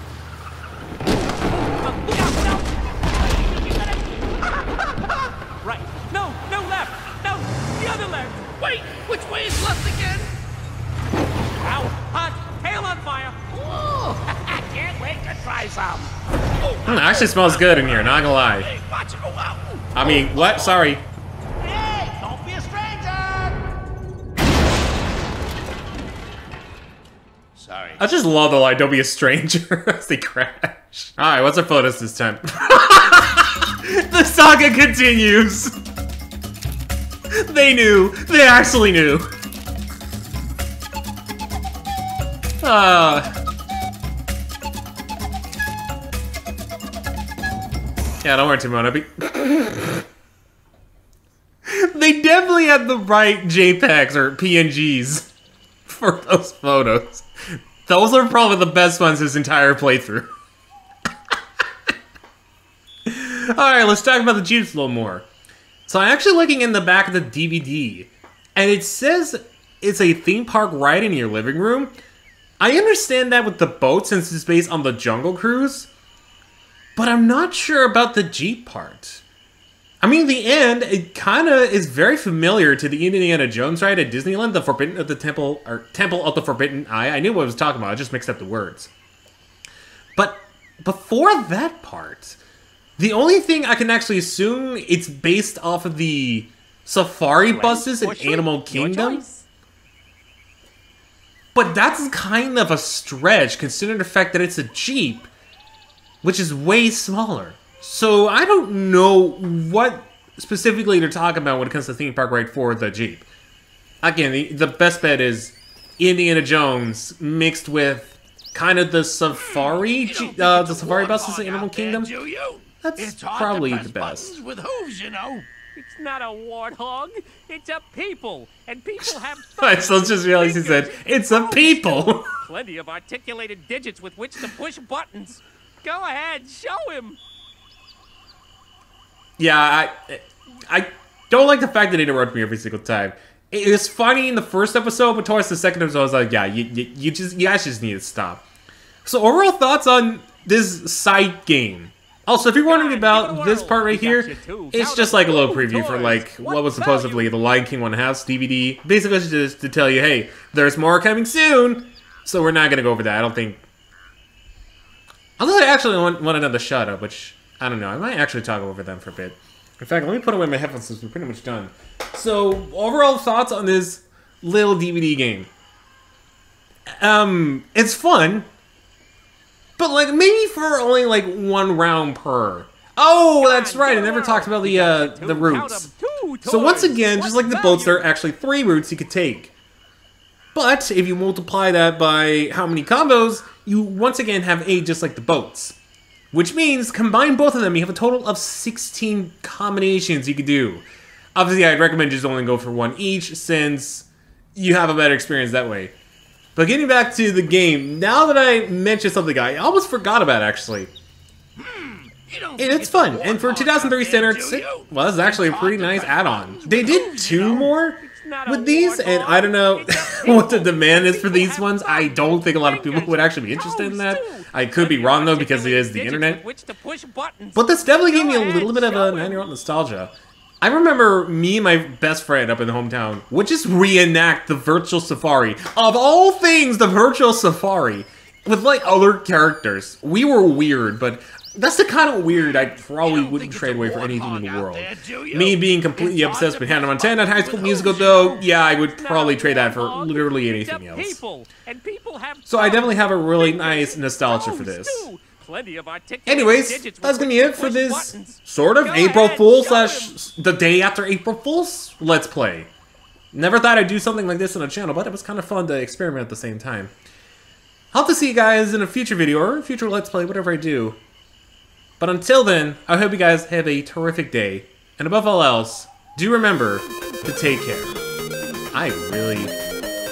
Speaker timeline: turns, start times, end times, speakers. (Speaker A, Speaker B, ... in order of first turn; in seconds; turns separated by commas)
Speaker A: 1.5-2.7, Speaker A: 5.6-8.4, Speaker B: 8.6-10.3, Speaker A: 11.6-13.4, Speaker C: 13.5-16.1, Speaker B: 16.6-20.9, Speaker D: 16.9-18.7, Speaker D: 19.9-21.0, Speaker C: 21.6-23.6, Speaker B: 27.6-28.0, Speaker D: 28.0-35.7, Speaker D: 37.3-39.3, Speaker D: 42.6-43.3, Speaker D: 48.2-50.0, Speaker D: 51.6-55.3, Speaker D: 55.9-60.3, Speaker D: 63.0-65.3, Speaker D: 65.9-71.9, Speaker D: 72.6-75.9, Speaker D: 77.0-79.2, Speaker D: 80.0-88.9, Speaker D: 90.2-92.4, Speaker D: 93.0-99.2, Speaker A: 97.5-99.5, Speaker D: 101.5-105.3, Speaker D: 106.2-113.2, Speaker D: 114.0-122.1, Speaker B: 119.3-125.5, Speaker D: 122.8-124.3, Speaker A: 125.7-137.2, Speaker D: 129.0-132.3, Speaker D: 139.4-148.4, Speaker D: 149.0-163.6, Speaker A: 152.6-157.3, Speaker D: 165.4-175.5, Speaker D: 177.0-178.5, Speaker D: 179.8-185.9, Speaker A: 183.4-188.1, Speaker D: 186.4-189.5, Speaker D: 190.5-195.8, Speaker D: 196.3-205.9, Speaker D: 206.6-210.9, Speaker B: 211.6-217.7, Speaker D: 212.6-226.4, Speaker A: 218.0-229.5, Speaker D: 227.6-251.2, Speaker B: 242.5-248.4, Speaker A: 248.9-260.1, Speaker D: 252.5-255.1, Speaker D: 256.3-262.7, Speaker D: 263.3-266.9, Speaker D: 267.9-271.0, Speaker D: 272.0-278.0, Speaker D: 278.7-279.5